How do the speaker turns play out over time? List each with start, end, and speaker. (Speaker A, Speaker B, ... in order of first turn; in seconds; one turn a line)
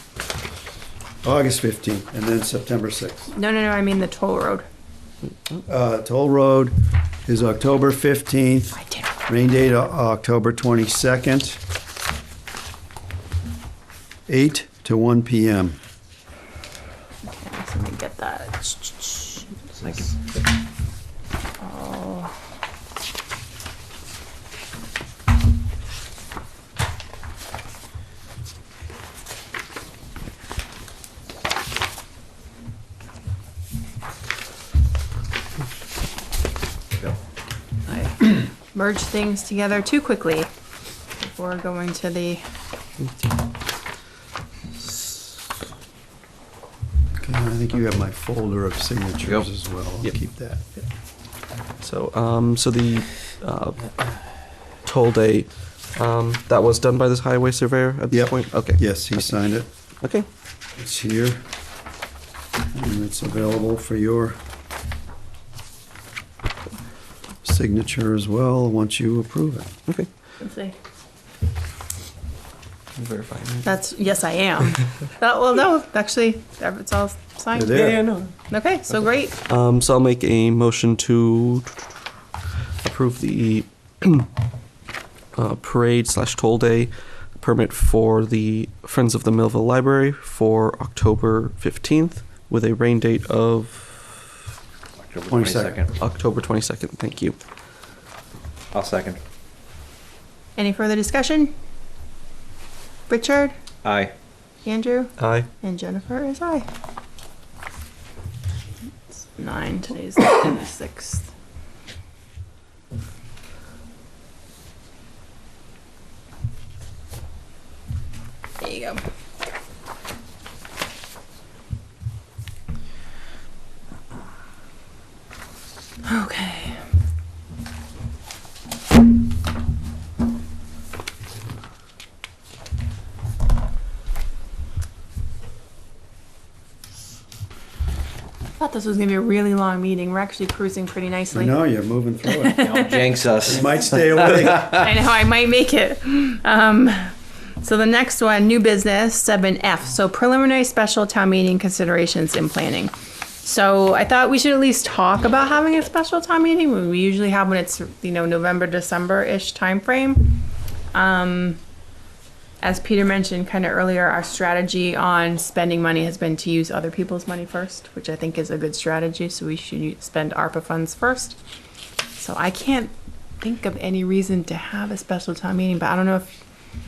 Speaker A: 1.2-3.3
Speaker B: 3.3-4.7
Speaker A: 5.7-6.8
Speaker A: 7.3-11.6
Speaker B: 8.8-9.1
Speaker A: 14.3-15.8
Speaker B: 17.3-19.2
Speaker B: 21.6-22.3
Speaker B: 37.9-40.5
Speaker B: 41.2-42.4
Speaker A: 47.2-50.8
Speaker C: 51.8-53.9
Speaker C: 54.9-59.5
Speaker A: 58.1-59.7
Speaker C: 60.0-60.3
Speaker A: 60.8-61.4
Speaker A: 62.7-64.4
Speaker A: 67.4-69.7
Speaker B: 70.4-70.8
Speaker C: 73.0-73.7
Speaker B: 73.6-77.8
Speaker A: 77.5-78.1
Speaker C: 77.7-78.3
Speaker B: 78.5-79.4
Speaker C: 78.9-82.0
Speaker C: 82.8-84.3
Speaker C: 85.3-94.2
Speaker D: 95.0-95.9
Speaker A: 95.3-95.8
Speaker C: 96.0-97.4
Speaker D: 98.7-99.2
Speaker B: 100.6-101.5
Speaker B: 103.1-103.5
Speaker D: 103.8-104.1
Speaker B: 104.7-106.7
Speaker C: 105.2-105.5
Speaker B: 109.1-111.3
Speaker B: 118.6-119.0
Speaker B: 126.0-126.8
Speaker B: 138.6-141.6
Speaker A: 141.3-142.6
Speaker B: 142.2-143.1
Speaker D: 142.6-144.8
Speaker A: 143.4-144.8
Speaker B: 144.7-161.6
Speaker B: 162.6-171.4
Speaker B: 172.2-176.4